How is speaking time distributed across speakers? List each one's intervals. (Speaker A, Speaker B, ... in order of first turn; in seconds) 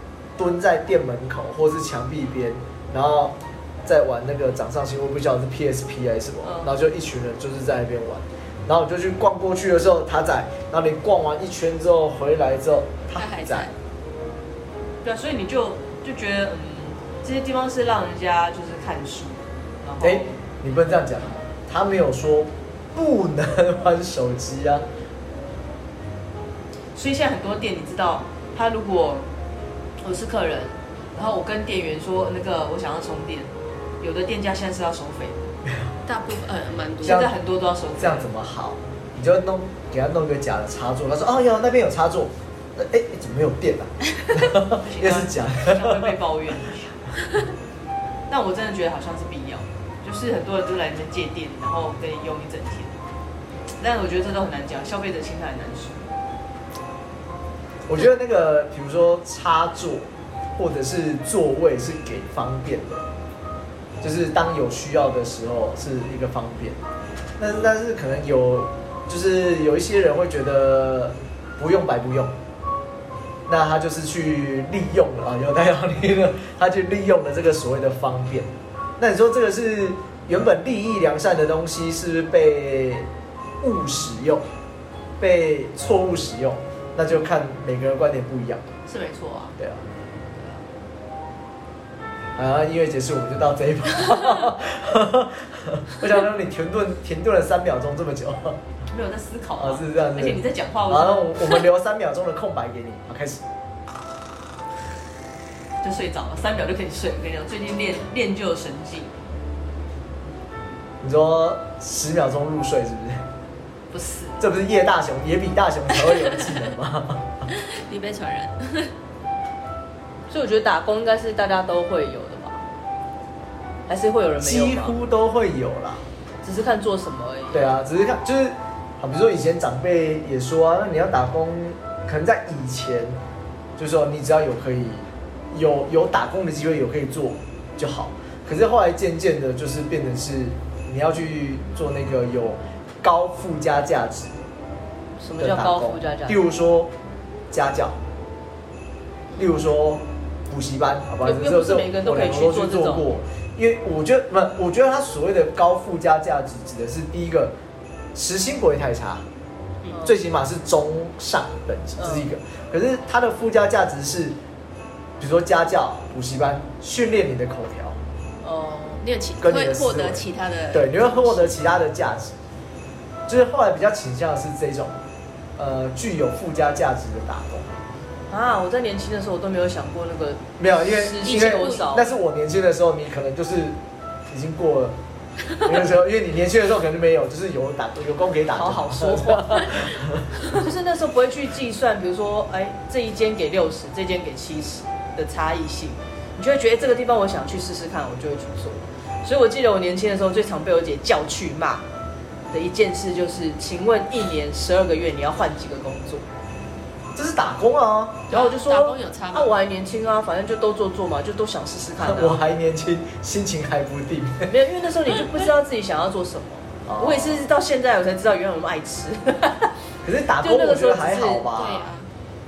Speaker A: 0.4-13.7, 20.0-24.9, 37.0-37.4, 38.0-46.2, 57.9-63.1, 64.0-66.8, 67.4-72.3, 73.5-83.1, 83.6-84.4, 85.2-88.7, 89.6-89.8, 92.4-98.6, 99.6-103.4, 111.0-113.2, 114.4-117.4, 124.4-126.0, 127.5-133.2, 133.8-144.3, 145.4-146.9, 147.5-148.0, 149.3-157.5, 158.2-159.2, 160.0-164.4, 165.2-168.0, 169.4-172.4, 173.3-175.0, 175.6-177.7, 180.6-183.8, 184.3-185.0, 185.6-190.4, 207.1-208.3, 212.0-214.5, 216.9-217.4, 220.0-221.9
Speaker B: 6.4-6.7, 15.0-20.4, 26.9-29.3, 30.0-35.5, 37.0-38.3, 44.8-47.0, 48.3-53.0, 53.8-56.1, 88.9-89.6, 90.3-90.6, 98.9-101.6, 105.8-109.2, 113.9-114.4, 120.3-122.6, 123.9-125.0, 126.4-127.8, 145.2-146.4, 151.2-153.1, 159.9-160.2, 162.0-162.3, 168.4-169.0, 178.3-182.1, 188.5-189.9, 190.5-201.9, 202.5-206.3, 208.3-212.4, 214.5-219.7, 220.4-221.4
Speaker C: 13.2-13.7, 36.1-37.3, 117.5-118.9, 169.0-171.6, 181.2-182.0, 208.3-209.5, 221.5-222.1